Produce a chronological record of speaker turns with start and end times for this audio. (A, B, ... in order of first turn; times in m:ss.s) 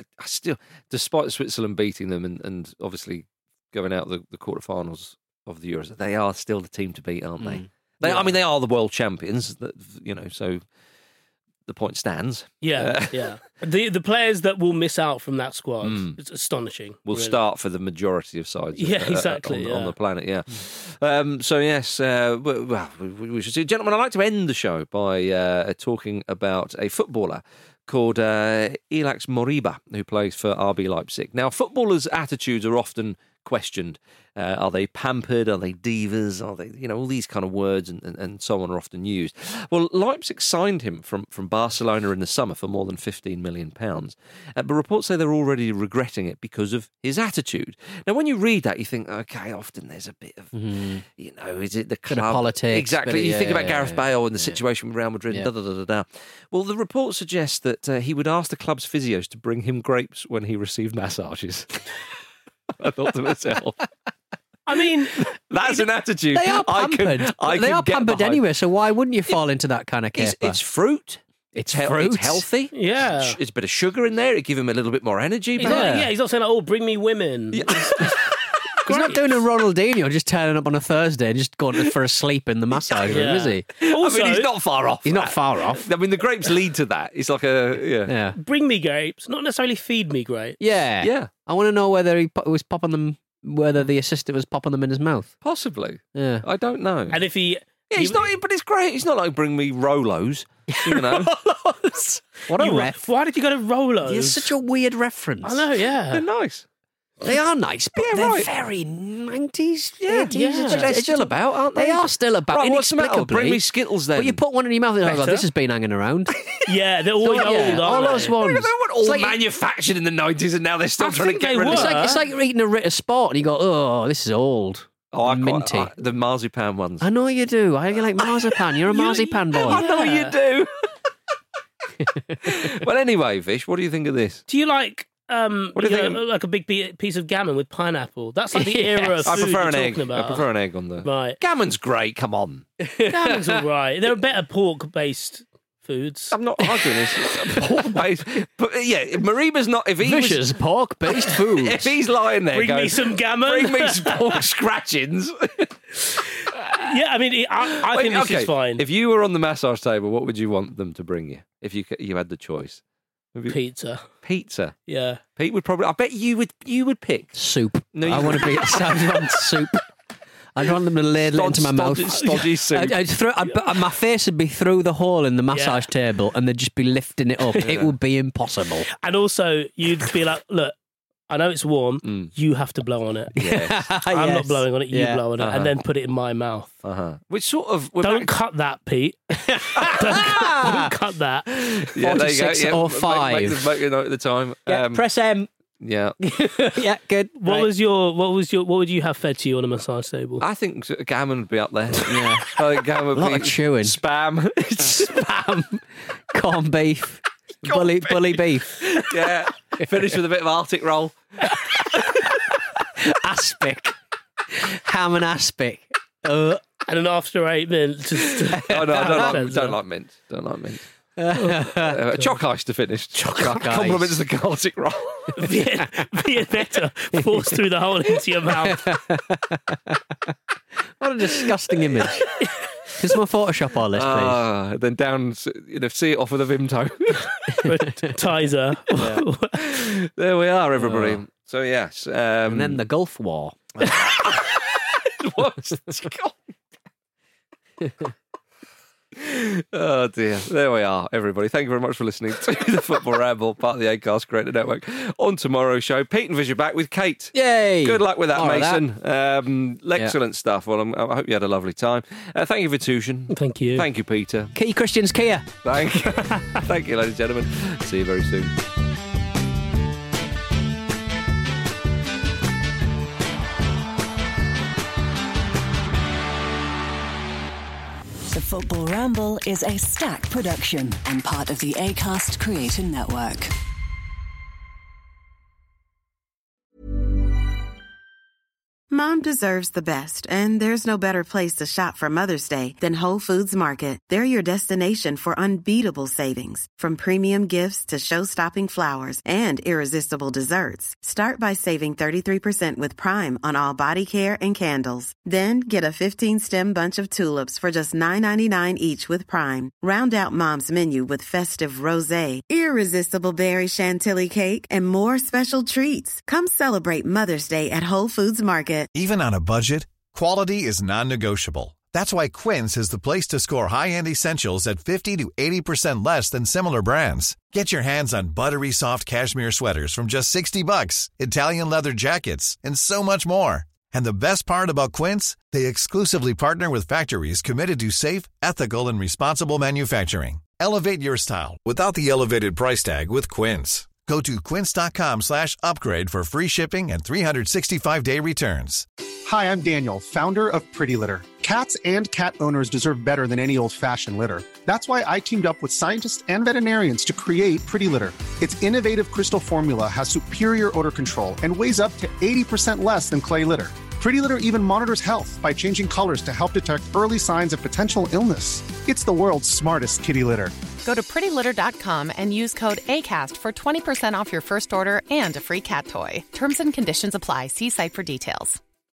0:00.2-0:10.6 A
0:07.4-0:08.1 B
0:11.7-0:13.4 A
0:12.6-0:17.4 C
0:15.8-0:16.2 A
0:17.0-1:02.1 A
0:18.8-0:20.0 C
0:50.5-0:51.0 B
0:52.1-0:54.6 B
1:02.8-1:03.8 A
1:04.7-1:05.2 C
1:04.7-1:08.4 A
1:06.3-1:10.6 B
1:10.2-1:16.0 A
1:11.5-1:12.4 B
1:12.7-1:13.4 C
1:15.6-1:18.2 C
1:15.6-1:16.1 B
1:17.5-1:18.4 A
1:18.9-1:19.3 C
1:18.9-1:23.8 B
1:23.0-1:24.5 C
1:23.8-1:28.1 A
1:25.0-1:25.9 B
1:28.1-1:28.4 B
1:28.4-1:30.6 C
1:30.6-1:35.3 B
1:31.0-1:31.3 A
1:35.4-1:37.2 A
1:36.2-1:36.4 B
1:37.1-1:38.2 C
1:37.9-1:41.3 A
1:40.7-1:43.0 B
1:42.6-1:44.5 C
1:44.0-1:45.7 B
1:45.4-1:46.2 C
1:46.1-1:46.6 A
1:47.2-1:53.6 B
1:48.0-1:48.5 A
1:50.0-1:54.4 A
1:50.3-1:51.0 C
1:54.2-1:56.6 B
1:55.0-1:55.4 C
1:56.7-1:58.4 C
1:57.2-1:59.4 B
1:57.2-2:02.2 A
2:01.0-2:02.2 C
2:01.6-2:05.9 B
2:05.1-2:07.1 A
2:07.0-2:09.9 B
2:08.9-2:10.4 C
2:09.5-2:10.7 A
2:12.0-2:12.3 B
2:12.4-2:14.4 A
2:14.5-2:20.5 C
2:15.8-2:16.2 A
2:18.5-2:19.4 B
2:19.3-2:23.6 A
2:21.0-2:21.4 C
2:23.0-2:26.4 C
2:26.3-2:30.4 A
2:26.8-2:28.0 B
2:30.0-2:31.9 B
2:31.6-2:35.7 A
2:32.5-2:34.4 C
2:36.6-2:36.9 A
2:36.7-2:38.8 C
2:37.6-2:42.8 A
2:43.5-2:44.0 C
2:44.2-2:44.8 A
2:44.9-2:45.2 C
2:45.4-2:47.4 A
2:47.4-2:49.8 B
2:47.9-2:49.2 A
2:50.6-2:58.9 B
2:51.3-2:53.0 A
2:55.5-2:55.9 C
2:57.6-2:57.9 A
2:58.9-3:00.8 C
3:01.3-3:03.3 C
3:02.0-3:02.3 A
3:03.4-3:05.2 B
3:03.4-3:03.8 A
3:04.0-3:06.7 C
3:05.4-3:05.8 A
3:06.8-3:08.3 A
3:08.0-3:09.4 C
3:09.4-3:10.9 B
3:09.8-3:10.2 A
3:10.0-3:11.5 C
3:11.6-3:15.0 A
3:12.0-3:13.7 B
3:14.7-3:15.5 B
3:15.8-3:16.2 A
3:16.2-3:17.7 B
3:17.4-3:20.4 C
3:20.4-3:25.1 A
3:22.0-3:22.6 B
3:23.1-3:24.0 B
3:24.6-3:29.1 B
3:27.6-3:31.2 A
3:31.5-3:33.9 B
3:34.5-3:36.6 B
3:36.8-3:39.8 C
3:38.6-3:39.4 B
3:38.7-3:40.8 A
3:41.2-3:42.0 B
3:41.8-3:45.4 A
3:43.2-3:43.6 C
3:43.4-3:44.2 B
3:45.4-3:48.9 C
3:48.6-3:50.3 B
3:51.0-3:52.3 B
3:53.0-3:54.4 B
3:53.9-3:57.5 A
3:57.6-3:58.2 B
3:57.7-3:59.8 C
3:59.0-3:59.2 B
3:59.6-4:02.8 A
4:00.8-4:01.2 B
4:02.5-4:04.1 B
4:03.8-4:06.4 A
4:07.8-4:08.1 B
4:09.2-4:24.5 A
4:17.4-4:18.8 B
4:23.3-4:23.8 C
4:24.6-4:25.5 B
4:25.6-4:28.5 A
4:38.3-4:43.5 D
4:48.9-5:18.9 E
5:18.9-5:48.9 F
5:49.2-6:10.6 G
6:10.8-6:18.6 H